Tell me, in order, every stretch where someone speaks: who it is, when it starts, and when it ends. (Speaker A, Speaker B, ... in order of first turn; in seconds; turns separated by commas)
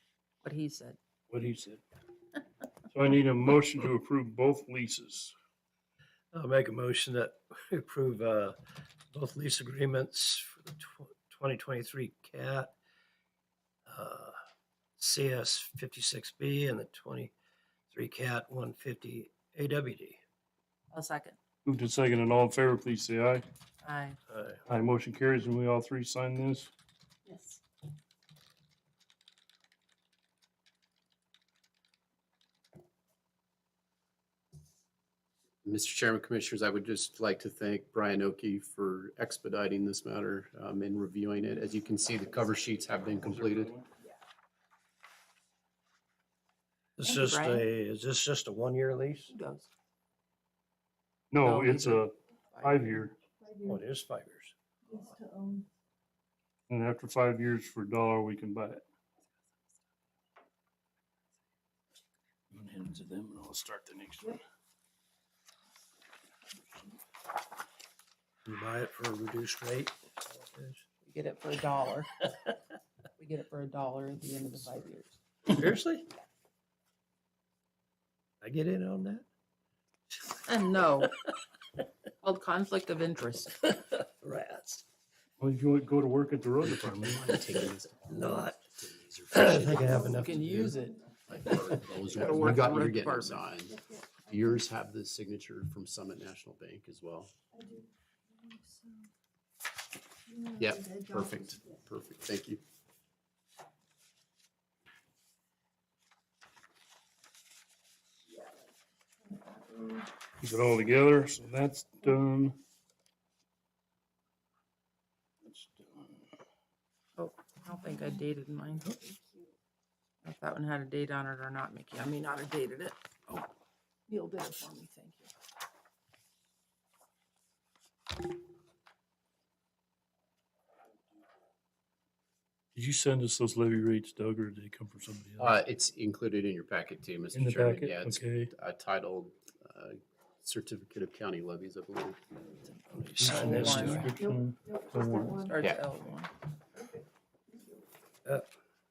Speaker A: 0.4-1.0, Speaker B: 1.3-1.8, Speaker B: 2.9-5.3, Speaker C: 6.3-8.6, Speaker C: 9.1-12.8, Speaker C: 13.9-14.3, Speaker C: 15.0-17.3, Speaker C: 17.9-20.2, Speaker A: 20.9-21.4, Speaker B: 21.6-23.4, Speaker A: 23.8-24.2, Speaker B: 24.7-26.7, Speaker D: 27.2-27.6, Speaker E: 35.6-43.7, Speaker B: 43.2-43.9, Speaker C: 47.0-49.3, Speaker A: 47.0-47.7, Speaker A: 49.3-49.7, Speaker B: 51.3-53.2, Speaker A: 51.4-53.0, Speaker D: 53.4-53.8, Speaker C: 53.7-54.5, Speaker D: 54.9-55.7, Speaker B: 56.7-58.8, Speaker B: 62.5-64.4, Speaker C: 68.5-70.8, Speaker A: 71.0-72.5, Speaker A: 73.2-75.2, Speaker C: 75.5-76.1, Speaker C: 78.4-79.2, Speaker A: 80.5-81.2, Speaker A: 82.2-83.7, Speaker C: 83.8-84.8, Speaker B: 85.4-87.2, Speaker E: 86.8-90.0, Speaker C: 88.1-88.7, Speaker C: 89.3-90.8, Speaker A: 90.0-91.0, Speaker E: 91.3-97.3, Speaker C: 91.4-91.8, Speaker A: 92.1-93.4, Speaker D: 93.8-94.6, Speaker D: 97.5-99.1, Speaker D: 100.3-101.8, Speaker E: 100.6-102.6, Speaker D: 108.3-108.7, Speaker D: 109.2-110.1, Speaker B: 110.4-112.6, Speaker B: 115.4-116.2, Speaker A: 117.2-118.9, Speaker D: 118.8-119.5, Speaker A: 120.2-123.5, Speaker A: 124.1-125.3, Speaker B: 132.8-135.6, Speaker E: 135.4-142.2, Speaker B: 137.3-138.5, Speaker C: 142.9-144.2, Speaker B: 143.2-145.4, Speaker A: 143.3-144.1, Speaker D: 144.2-145.8, Speaker A: 145.4-146.3, Speaker E: 145.6-145.8, Speaker D: 146.7-147.7